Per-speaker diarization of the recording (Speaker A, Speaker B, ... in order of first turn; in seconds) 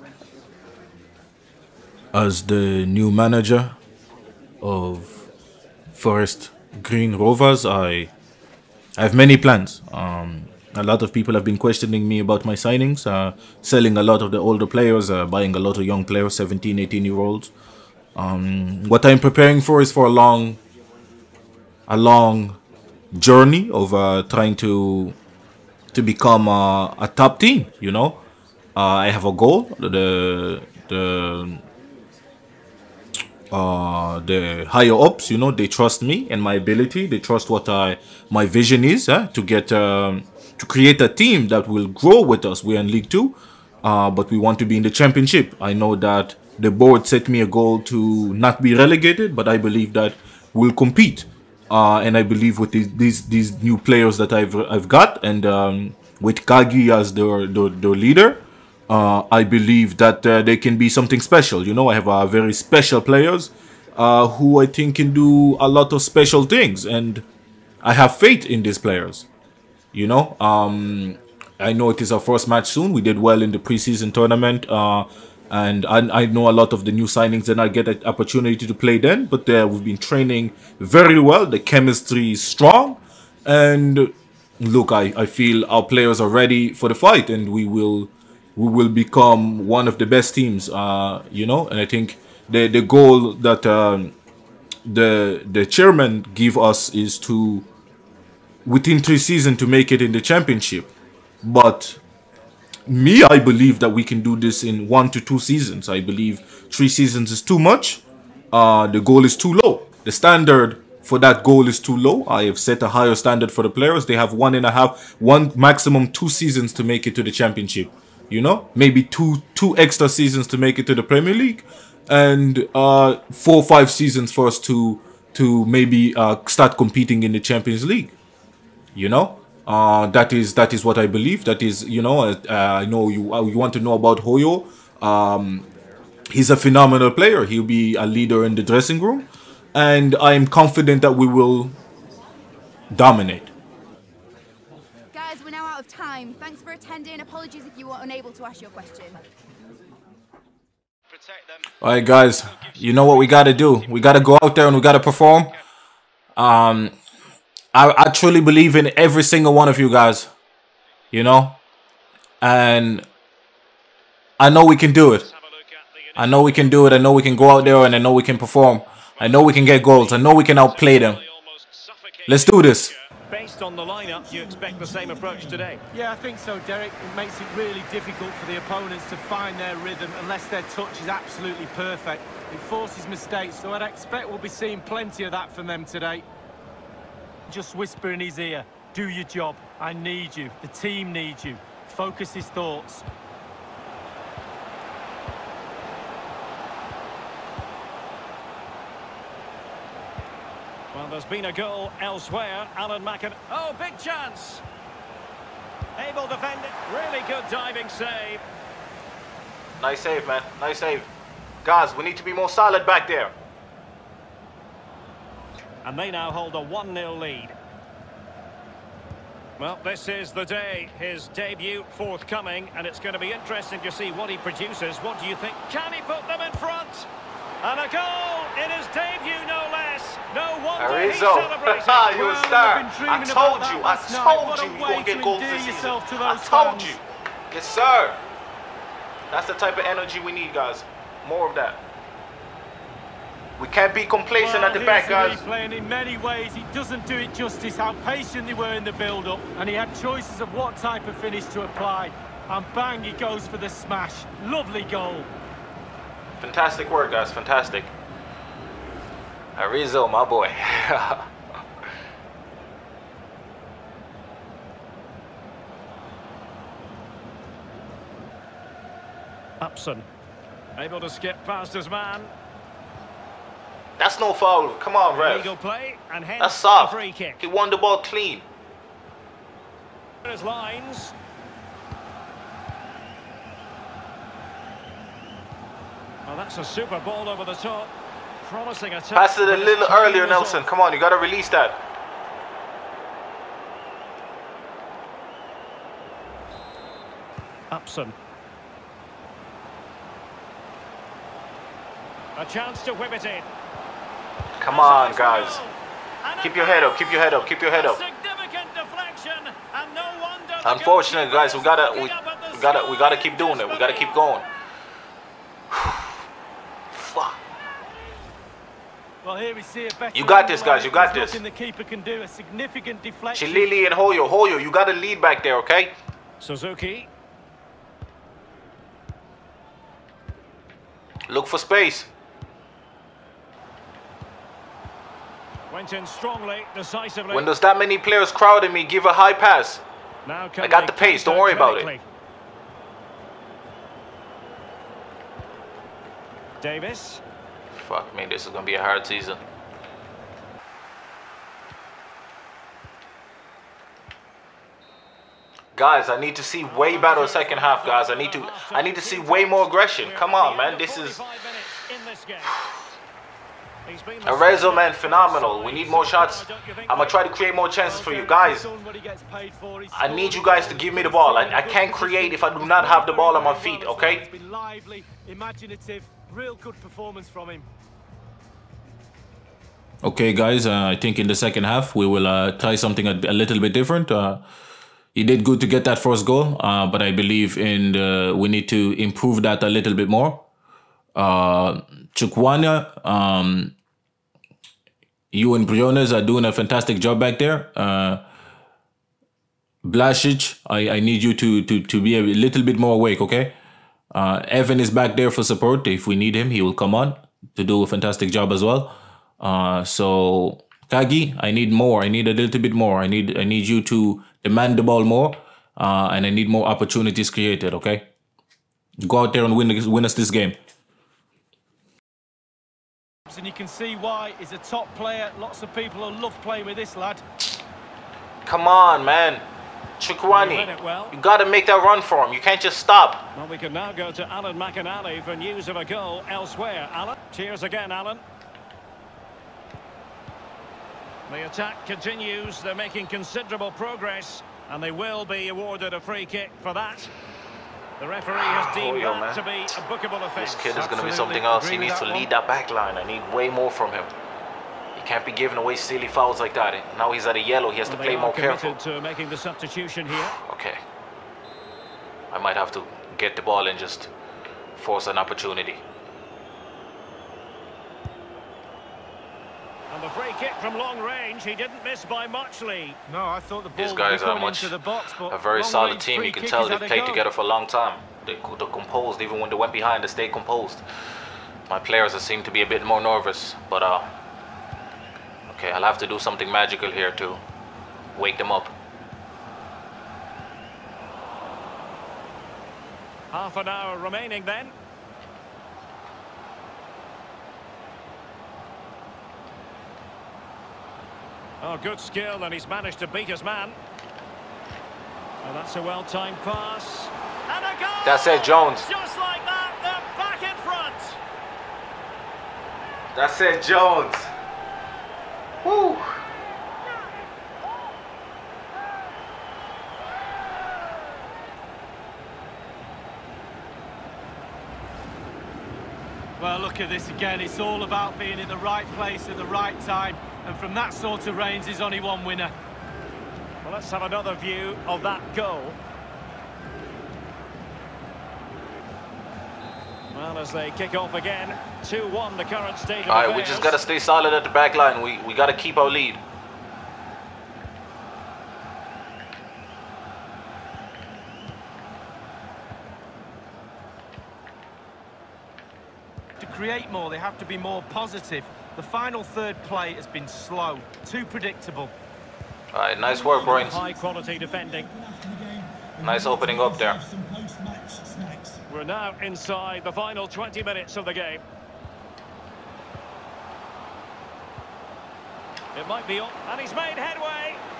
Speaker A: 2.1-3.7, 4.6-5.3, 5.9-8.1, 9.0-17.5, 18.1-20.6, 21.9-22.6, 23.1-25.1, 25.9-28.2, 28.8-31.6, 33.5-67.2, 67.8-69.3, 69.9-94.1, 94.8-97.7, 98.6-100.9, 101.4-102.0, 102.9-128.1, 128.9-135.7, 136.3-141.7, 142.9-143.5, 151.8-155.5, 156.3-156.9, 157.7-160.3, 161.1-161.6, 162.4-163.0, 164.4-165.3, 166.2-171.2, 172.3-172.9, 209.8-211.1, 211.6-213.3, 230.8-238.2, 239.3-241.8, 243.6-245.4, 256.4-257.9, 259.6-261.2, 274.0-275.5, 276.4-278.4, 289.1-291.8, 304.6-305.6, 306.4-308.0, 310.6-314.4, 315.7-316.1, 316.9-317.4, 320.1-321.4, 323.3-325.9, 331.3-332.1, 337.3-339.8, 340.6-341.9, 347.7-349.4, 355.7-361.2, 364.2-368.7, 369.9-374.2, 380.0-384.4, 385.1-390.4, 391.1-393.7, 395.3-398.2, 399.8-403.6, 404.1-418.1, 419.0-420.6, 428.4-429.4, 430.0-433.2, 448.3-449.5, 450.3-454.1, 454.9-458.8, 460.3-460.8, 462.3-464.1, 464.8-465.8, 473.8-474.8, 475.3-480.8, 481.7-484.1, 485.5-487.4, 488.1-488.7, 508.0-508.9, 513.1-514.3, 515.6-516.2, 543.0-546.2, 562.7-563.8, 566.0-567.0
Speaker B: 145.1-149.2
Speaker C: 152.5-154.7, 174.7-175.0, 175.9-186.2, 187.5-193.1, 232.1-236.9, 244.4-255.3, 319.2-323.7, 367.8-377.6, 423.3-427.2, 450.7-452.3, 473.1-477.3, 526.4-532.5, 556.4-561.9, 563.1-568.6
Speaker D: 165.0-167.6, 169.2-175.8, 200.9-204.6, 206.0-208.4, 215.8-217.6, 219.6-227.1, 227.6-232.1, 269.6-270.1, 270.8-272.3, 275.1-277.4, 280.2-281.1, 286.2-290.7, 297.7-298.1, 302.3-303.5, 304.7-314.4, 326.4-327.1, 335.7-337.5, 340.2-342.0, 346.6-347.2, 356.6-362.6, 363.8-367.2, 430.3-431.1, 433.3-438.2, 441.3-447.1, 448.0-450.8, 457.8-460.4, 469.9-473.0, 493.3-494.7, 501.6-503.8, 505.4-511.2, 533.6-535.8, 540.1-543.8, 563.4-564.9, 568.7-571.4, 575.7-577.6